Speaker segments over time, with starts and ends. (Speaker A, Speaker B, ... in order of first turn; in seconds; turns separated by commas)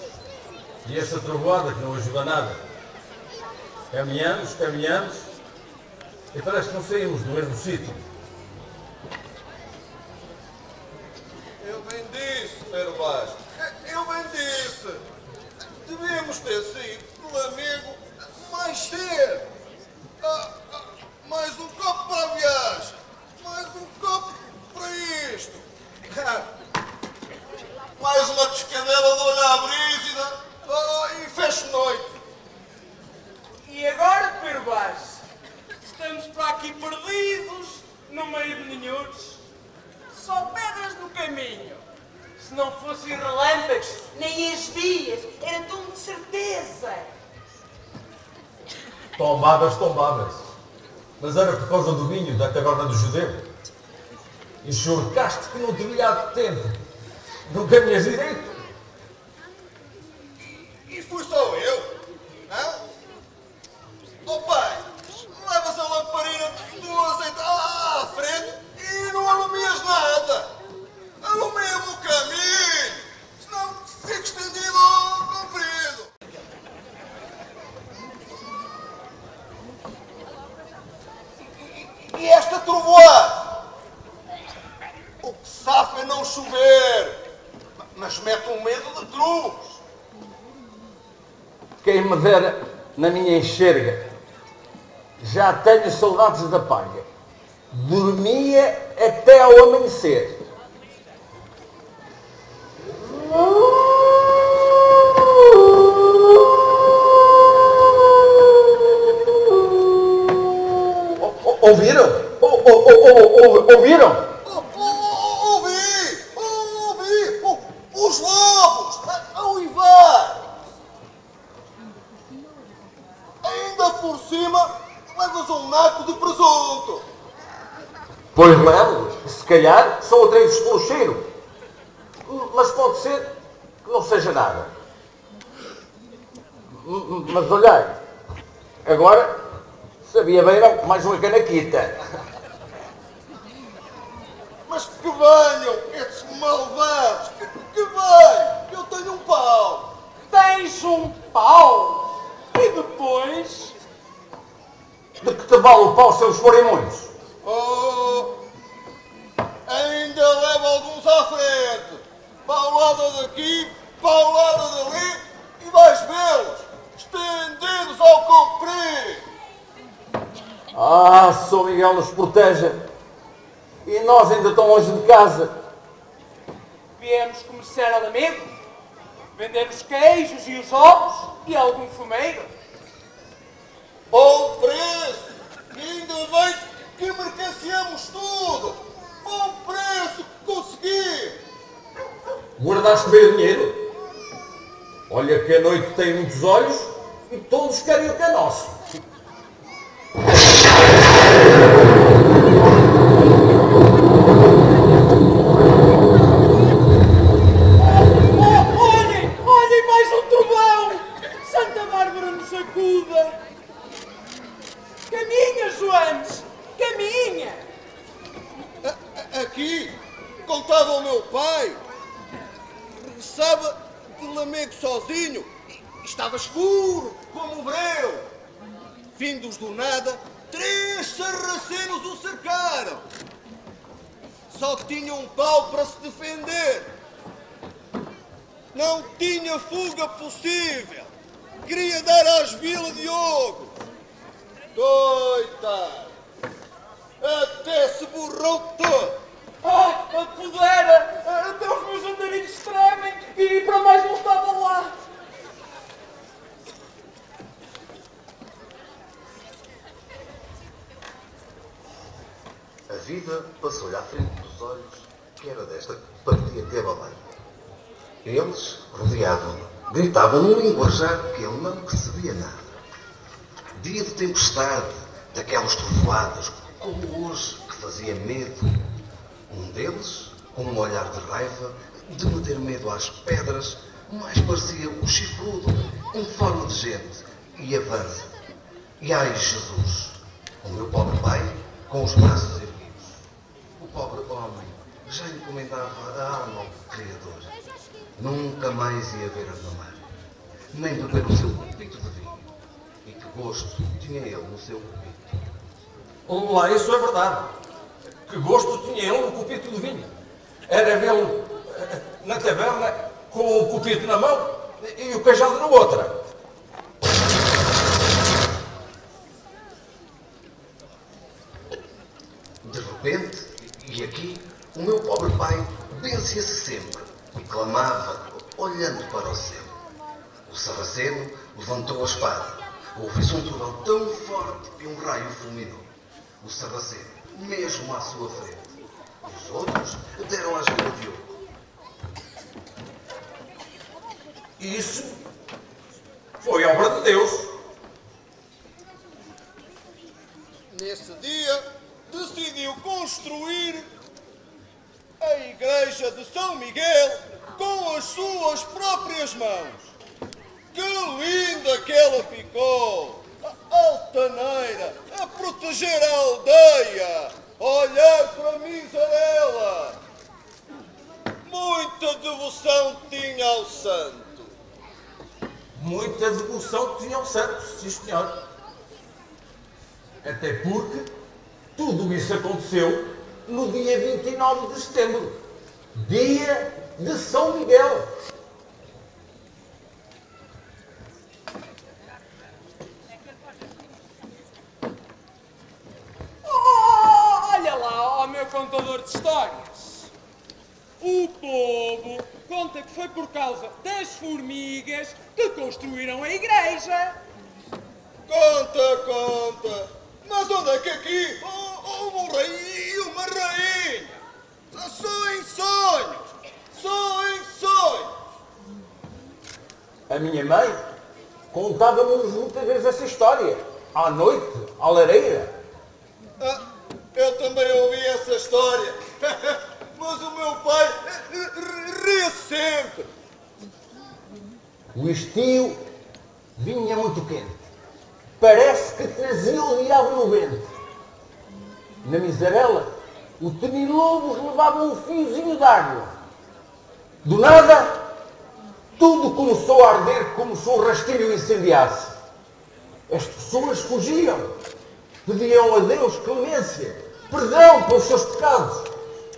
Speaker A: 0.8-2.6, Speaker A: 3.9-5.3, Speaker A: 6.3-8.0, Speaker B: 11.6-15.0, Speaker B: 15.8-19.5, Speaker B: 20.2-26.4, Speaker B: 28.0-32.1, Speaker C: 33.6-35.2, Speaker C: 35.8-39.4, Speaker C: 40.1-41.8, Speaker C: 42.4-47.1, Speaker A: 49.1-50.5, Speaker A: 51.2-53.4, Speaker A: 54.6-56.8, Speaker A: 57.4-58.6, Speaker B: 60.8-61.9, Speaker B: 62.5-62.8, Speaker B: 64.2-70.5, Speaker B: 71.2-76.1, Speaker B: 81.4-83.6, Speaker B: 85.2-87.2, Speaker B: 87.9-89.8, Speaker A: 91.8-94.1, Speaker A: 95.2-97.1, Speaker A: 97.7-100.4, Speaker A: 111.0-114.3, Speaker B: 114.4-120.5, Speaker B: 123.4-127.0, Speaker A: 128.3-131.2, Speaker A: 132.2-133.3, Speaker A: 133.8-134.7, Speaker A: 136.7-138.0, Speaker A: 138.8-139.3, Speaker A: 140.0-142.0, Speaker B: 144.7-149.9, Speaker C: 150.3-153.8, Speaker A: 155.2-157.1, Speaker B: 157.4-158.3, Speaker B: 159.7-169.2, Speaker A: 170.7-172.8, Speaker A: 173.8-175.5, Speaker C: 177.0-178.6, Speaker C: 179.3-182.5, Speaker B: 184.1-191.4, Speaker A: 192.6-193.8, Speaker A: 195.1-198.8, Speaker C: 207.8-213.3, Speaker C: 215.1-217.7, Speaker B: 218.8-221.8, Speaker B: 222.9-228.2, Speaker B: 229.2-233.0, Speaker B: 234.5-236.9, Speaker B: 238.7-241.1, Speaker B: 241.6-243.8, Speaker B: 244.7-246.1, Speaker B: 247.2-249.2, Speaker C: 249.6-254.9, Speaker D: 262.9-267.3, Speaker D: 268.2-272.7, Speaker D: 273.7-278.9, Speaker D: 279.5-288.3, Speaker D: 289.0-293.2, Speaker D: 293.8-297.5, Speaker D: 298.2-300.1, Speaker D: 300.7-302.5, Speaker D: 303.0-305.4, Speaker A: 306.3-307.5, Speaker A: 308.3-310.1, Speaker A: 310.7-316.3, Speaker D: 322.6-329.8, Speaker D: 330.4-335.9, Speaker D: 336.4-338.7, Speaker D: 339.2-341.4, Speaker A: 344.6-345.1, Speaker A: 346.4-347.5, Speaker B: 350.7-353.9, Speaker B: 355.2-359.9, Speaker B: 360.7-370.0, Speaker B: 371.4-374.5, Speaker A: 375.7-378.3, Speaker A: 380.2-381.1, Speaker A: 381.7-385.4, Speaker A: 385.9-388.1, Speaker C: 396.4-400.1, Speaker C: 401.0-407.2, Speaker B: 408.3-414.2, Speaker B: 414.7-418.1, Speaker A: 420.1-420.8, Speaker A: 421.5-425.5, Speaker B: 427.1-433.1, Speaker A: 434.9-435.8, Speaker A: 436.6-437.6, Speaker A: 438.4-440.7, Speaker A: 442.0-446.1, Speaker A: 447.2-448.0, Speaker A: 448.9-452.1, Speaker A: 453.1-454.5, Speaker A: 455.2-458.9